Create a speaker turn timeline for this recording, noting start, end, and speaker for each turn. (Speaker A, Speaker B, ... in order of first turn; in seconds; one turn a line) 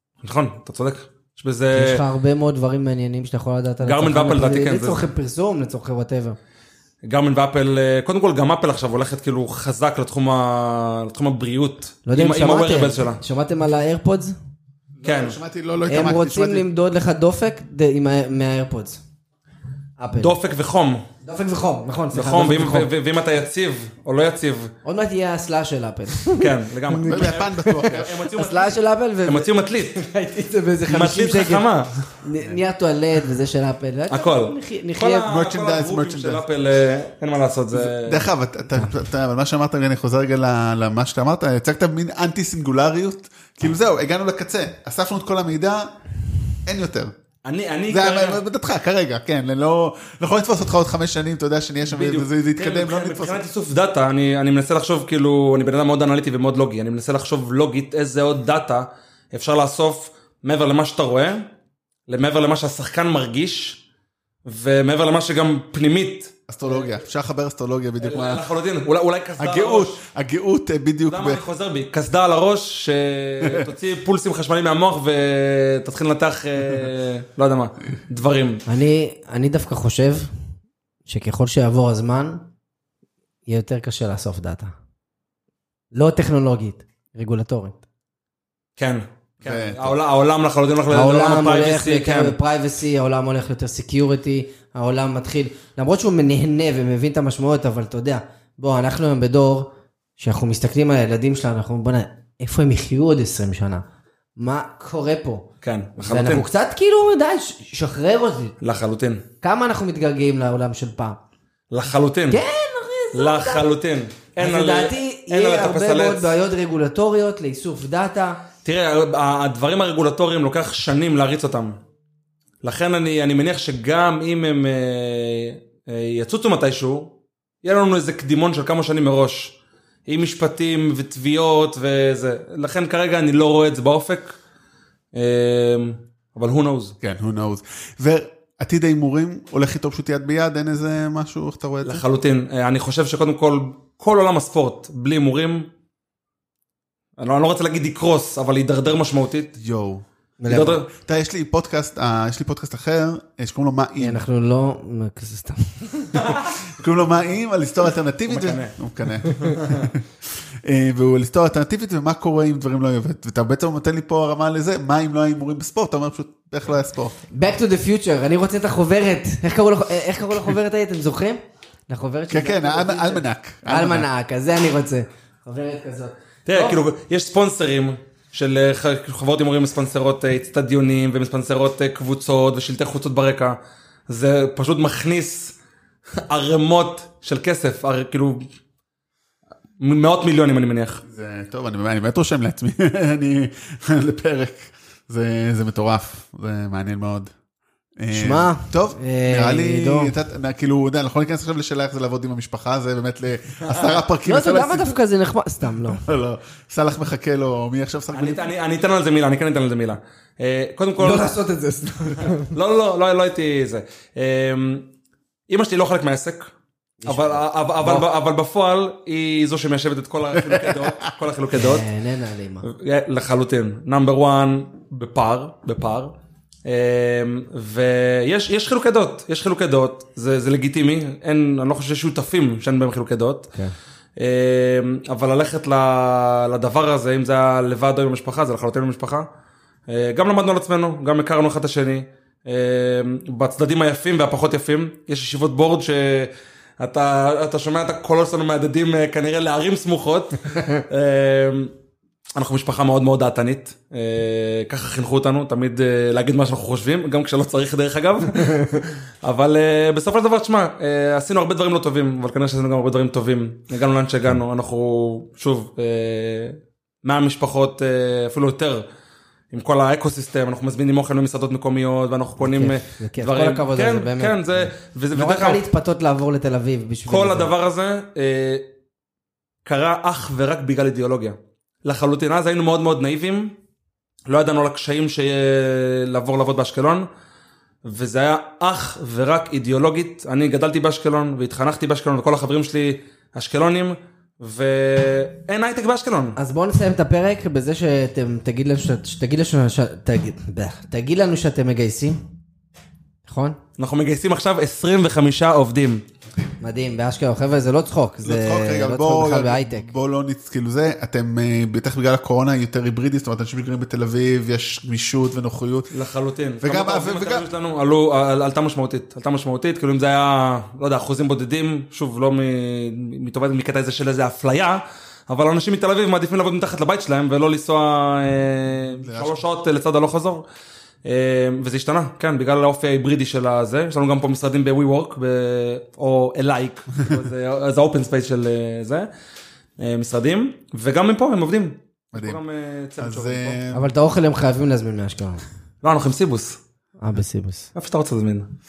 Speaker A: 0.2-2.0
Speaker B: 1.7-6.4
Speaker A: 3.8-5.0
Speaker A: 7.0-13.2
Speaker B: 12.1-14.4
Speaker C: 15.0-16.7
Speaker A: 15.0-15.4
Speaker B: 15.9-19.0
Speaker B: 20.0-20.4
Speaker A: 20.2-21.1
Speaker B: 21.2-22.9
Speaker A: 22.1-24.7
Speaker B: 24.9-31.6
Speaker A: 26.3-30.0
Speaker C: 27.0-28.1
Speaker A: 30.9-32.1
Speaker B: 32.2-35.3
Speaker A: 34.1-38.3
Speaker C: 35.3-36.4
Speaker C: 37.7-45.9
Speaker C: 46.6-47.1
Speaker A: 47.5-48.4
Speaker C: 47.9-53.4
Speaker A: 51.9-61.5
Speaker A: 62.1-63.8
Speaker A: 64.5-66.3
Speaker C: 66.5-68.4
Speaker A: 68.0-70.0
Speaker C: 69.4-71.4
Speaker A: 71.1-78.6
Speaker C: 73.4-73.7
Speaker B: 78.7-80.3
Speaker B: 81.1-82.4
Speaker B: 83.5-84.7
Speaker B: 85.9-87.8
Speaker A: 88.8-92.4
Speaker C: 89.4-90.0
Speaker B: 90.9-103.8
Speaker B: 104.4-105.5
Speaker A: 105.6-106.5
Speaker B: 106.0-108.5
Speaker A: 108.6-109.2
Speaker B: 109.4-111.2
Speaker A: 111.7-112.4
Speaker B: 112.3-113.7
Speaker A: 113.1-116.3
Speaker B: 114.4-118.4
Speaker A: 118.6-121.8
Speaker A: 122.6-129.6
Speaker A: 130.1-134.4
Speaker A: 135.1-137.0
Speaker C: 137.0-142.0
Speaker A: 141.8-145.7
Speaker A: 147.2-149.5
Speaker C: 149.6-150.1
Speaker B: 150.4-150.8
Speaker A: 150.5-150.9
Speaker C: 151.0-154.2
Speaker B: 154.0-156.4
Speaker C: 156.3-167.2
Speaker A: 158.3-158.8
Speaker A: 159.4-159.9
Speaker B: 167.3-176.8
Speaker C: 172.3-174.1
Speaker A: 176.5-183.6
Speaker A: 184.1-185.6
Speaker A: 186.2-188.4
Speaker A: 189.8-191.0
Speaker C: 191.1-197.3
Speaker C: 198.0-205.0
Speaker B: 198.1-200.1
Speaker A: 203.6-204.0
Speaker B: 204.2-206.0
Speaker C: 206.1-208.5
Speaker A: 208.1-211.3
Speaker B: 211.0-212.5
Speaker A: 212.3-214.9
Speaker A: 215.5-216.5
Speaker B: 217.0-218.1
Speaker A: 217.1-221.9
Speaker C: 220.4-221.1
Speaker B: 221.5-222.7
Speaker A: 222.7-226.1
Speaker A: 226.7-233.5
Speaker A: 234.2-239.3
Speaker A: 239.9-251.7
Speaker A: 252.4-268.9
Speaker A: 269.5-275.6
Speaker B: 272.4-277.5
Speaker A: 277.1-278.6
Speaker A: 279.6-283.6
Speaker A: 284.3-287.1
Speaker A: 287.9-296.4
Speaker B: 296.4-302.2
Speaker B: 303.3-303.6
Speaker A: 303.8-306.0
Speaker B: 306.6-309.9
Speaker C: 308.2-315.9
Speaker A: 315.9-330.5
Speaker C: 316.6-317.5
Speaker C: 329.0-329.4
Speaker A: 331.1-339.1
Speaker A: 339.8-343.6
Speaker C: 342.1-342.4
Speaker C: 343.0-343.8
Speaker B: 343.7-345.4
Speaker A: 345.8-346.6
Speaker B: 347.0-347.7
Speaker A: 347.8-348.5